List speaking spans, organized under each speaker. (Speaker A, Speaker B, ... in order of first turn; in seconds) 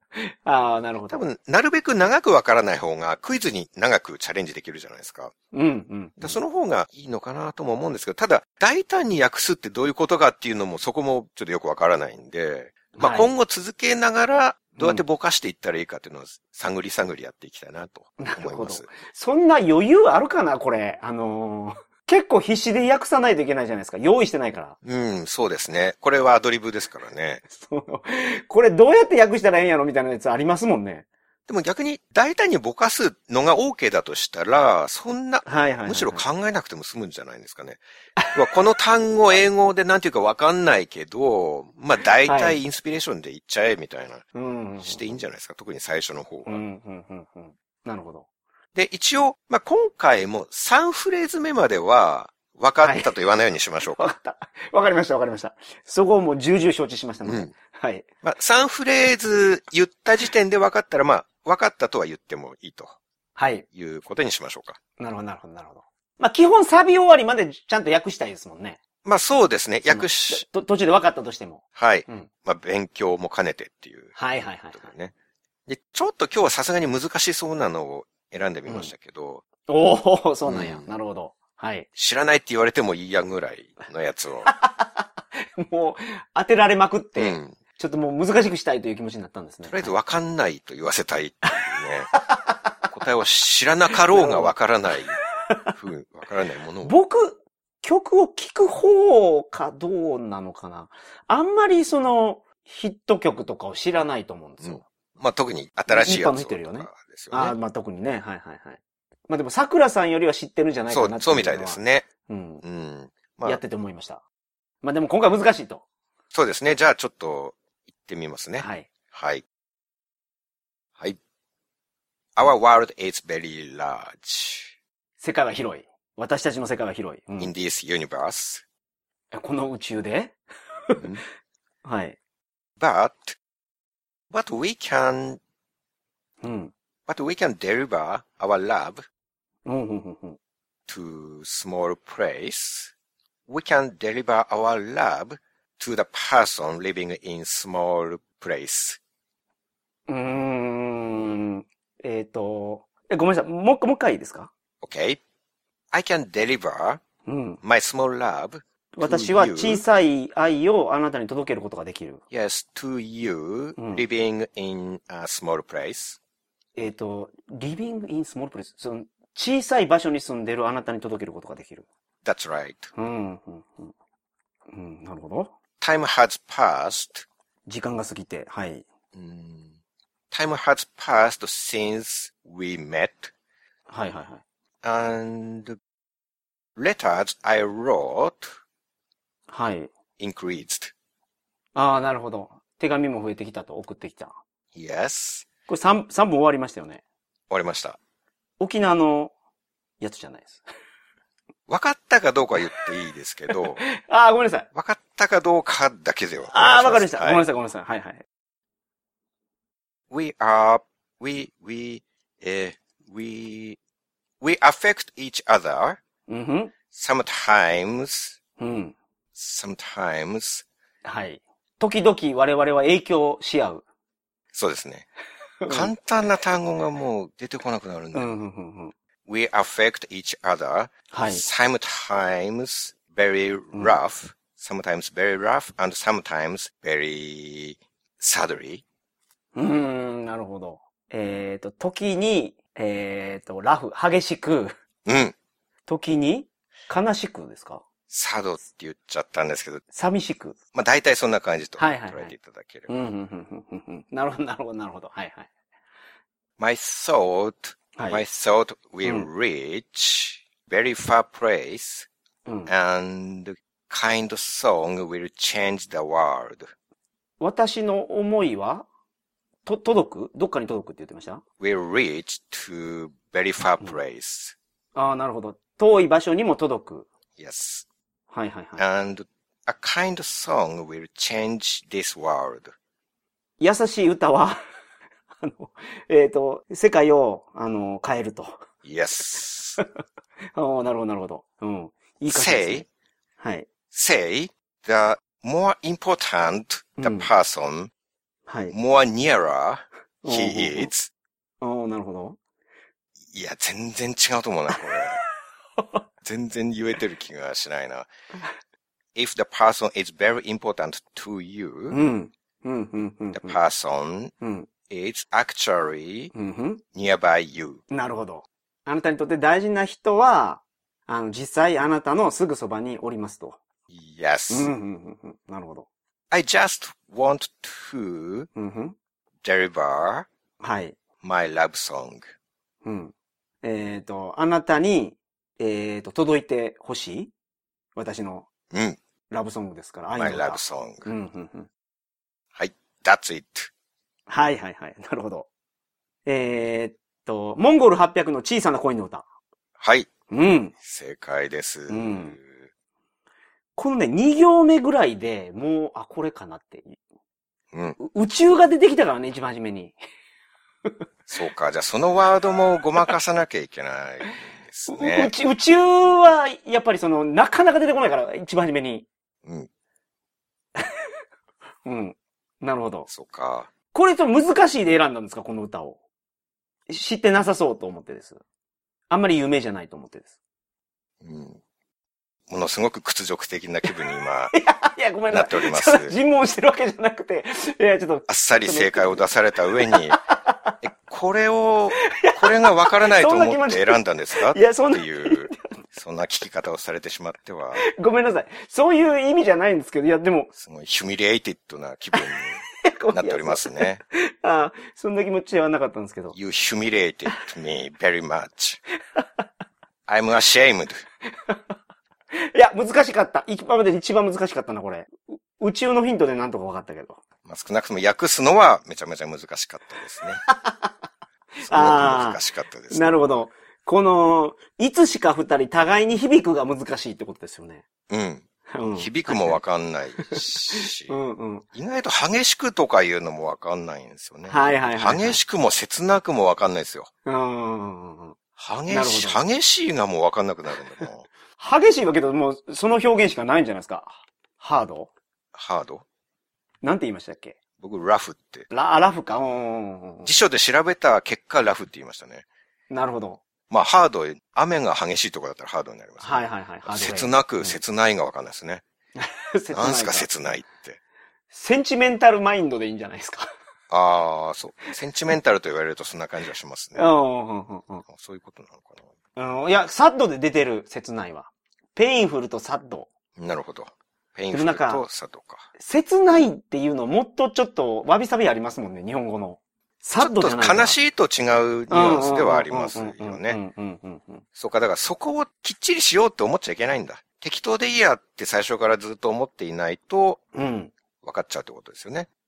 Speaker A: 0.1-1.3, 5.5-6.4, 12.9-13.3, 14.8-15.0, 18.2-24.8, 27.5-31.1, 35.4-36.2, 38.2-38.4, 42.2-42.6, 44.3-45.1, 46.5-48.3, 52.8-53.1, 53.9-58.0, 63.4-63.6, 65.0-68.8, 69.9-72.3, 74.1-74.9, 78.7-78.9, 79.7-81.9, 84.5-89.9, 92.1-92.9, 93.9-94.5, 95.2-95.7, 96.8-104.8, 105.9-112.6, 113.4-114.2, 114.8-115.8, 118.6-118.9, 125.2-127.5, 129.3-130.3, 131.8-132.2, 136.4-136.7, 139.7-140.4, 150.1-154.5, 157.2-157.6, 158.9-162.2, 163.8-164.0, 166.8-171.8, 172.9-173.9, 174.7-175.5, 177.7-178.8, 183.9-184.4, 189.5-189.9, 191.7-194.3, 195.7-197.0, 198.6-199.3, 200.0-200.6, 203.6-204.7, 206.5-208.2, 216.3-216.7, 218.6-218.9, 221.0-223.8, 225.6-225.9, 228.1-228.9, 231.1-231.4, 239.6-244.7, 245.8-247.8, 249.9-250.6, 251.8-252.3, 252.9-255.5, 257.9-258.2, 262.4-262.7, 267.4-268.9, 269.6-271.4, 274.9-277.1, 278.3-278.8, 283.6-284.6, 285.4-288.6, 290.5-292.9, 293.4-293.7, 297.0-297.3, 298.5-298.7, 300.2-300.9, 301.6-302.4, 311.9-313.6, 314.4-314.7, 316.3-316.8, 317.9-323.6, 324.5-325.9, 328.5-328.9, 330.6-331.0, 332.8-337.3, 337.9-338.5, 339.3-341.7, 344.3-345.5, 346.2-349.2, 350.3-350.7, 351.9-352.4, 353.8-357.0, 358.0-360.0, 364.9-369.1, 370.8-371.1, 371.8-373.1, 373.9-376.0, 376.9-378.4, 379.1-380.4, 383.8-389.2, 389.9-390.7, 392.0-395.6, 397.7-400.5, 402.8-406.4, 412.4-417.2, 420.5-420.9, 421.6-427.8, 428.7-429.6, 430.3-431.6, 434.5-435.4, 437.2-438.4, 438.9-439.4, 441.6-445.1, 446.8-447.6, 448.7-450.3, 452.9-453.4, 456.2-457.8, 459.1-460.3, 461.5-463.5, 466.9-468.0, 469.4-473.1, 474.5-475.1, 475.8-481.0, 481.9-484.4, 490.5-490.9
Speaker B: 1.1-5.3, 6.2-18.9, 24.8-27.4, 31.5-37.8, 38.3-44.2, 44.8-46.6, 48.7-54.1, 57.2-57.5, 58.2-63.0, 63.7-64.8, 69.0-70.4, 71.7-74.2, 74.7-75.1, 75.7-79.4, 80.5-80.9, 82.0-84.5, 87.2-87.5, 89.7-92.1, 92.9-95.2, 95.7-96.9, 104.6-107.5, 110.9-112.0, 112.6-113.6, 116.3-119.4, 122.3-124.7, 127.4-128.6, 130.9-131.2, 132.8-133.4, 134.3-135.4, 137.1-139.0, 140.9-142.9, 143.5-149.0, 154.8-155.2, 155.9-157.0, 157.6-159.8, 162.3-166.2, 172.2-172.9, 175.8-177.2, 179.1-179.7, 180.3-183.3, 184.8-185.8, 186.8-188.5, 190.2-190.9, 194.7-195.5, 197.5-198.0, 201.7-203.8, 204.7-207.4, 210.1-213.8, 214.4-216.0, 216.9-218.4, 219.3-220.6, 224.5-225.1, 225.7-228.3, 229.2-238.8, 245.1-245.3, 248.1-249.8, 250.7-252.9, 256.6-262.1, 262.6-266.7, 271.6-274.6, 277.4-277.9, 278.8-282.7, 288.8-289.8, 292.2-292.8, 293.9-297.9, 298.7-301.1, 303.3-305.2, 306.2-308.1, 309.1-312.0, 313.3-314.3, 314.9-316.3, 316.9-317.8, 323.9-324.7, 326.3-328.5, 329.4-330.3, 331.2-332.2, 338.7-339.0, 340.1-341.1, 342.5-343.7, 349.8-350.1, 350.8-352.7, 357.7-358.0, 361.3-365.3, 373.1-373.7, 381.2-381.6, 382.5-384.5, 385.3-386.1, 388.3-390.2, 390.8-397.8, 400.6-404.0, 406.3-408.8, 410.1-411.0, 417.4-420.4, 421.6-423.3, 428.1-431.1, 431.7-437.1, 438.6-441.3, 445.5-446.0, 447.8-448.7, 450.2-452.4, 453.7-458.8, 459.7-461.0, 463.9-467.1, 468.1-469.1, 473.4-475.6, 480.2-483.6, 484.5-490.4, 491.2-492.3